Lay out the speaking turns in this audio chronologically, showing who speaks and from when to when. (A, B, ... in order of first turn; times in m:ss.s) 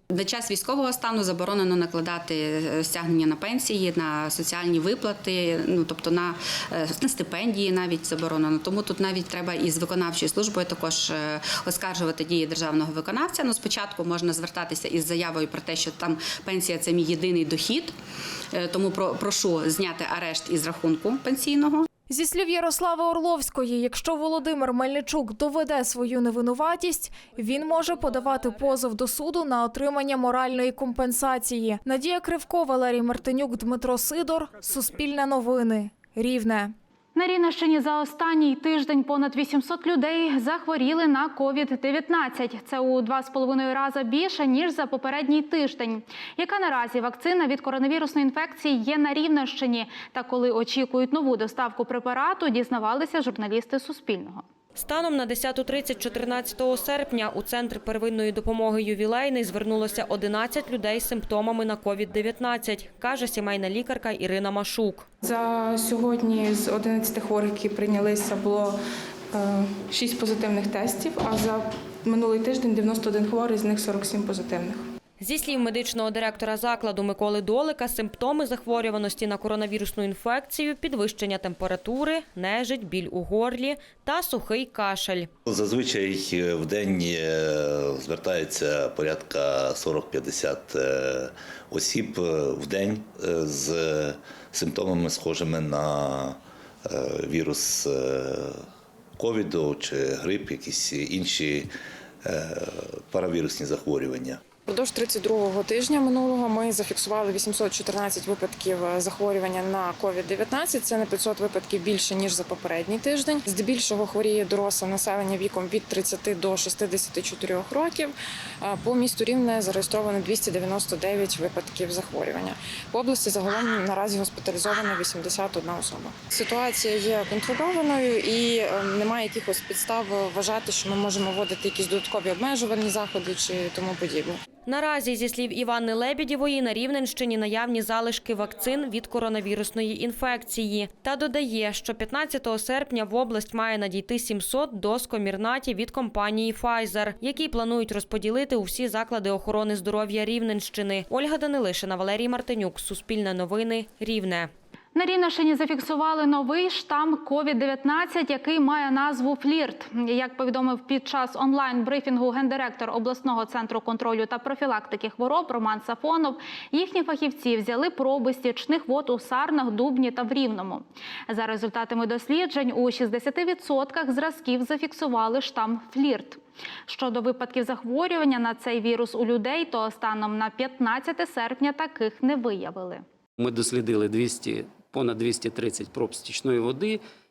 0:00.1-0:17.9 A
0:18.5-0:21.9 A
0:22.1-0:36.7 B
0:37.2-0:54.4 C
0:54.8-1:05.1 D
1:05.2-1:08.8 E
1:09.3-1:14.8 E
1:15.2-1:25.3 D
1:25.5-1:38.7 F
1:39.2-1:41.7 F
1:42.2-1:44.4 F
1:44.7-2:14.4 G
2:14.7-2:34.5 D
2:35.0-3:03.0 C
3:03.4-3:07.0 H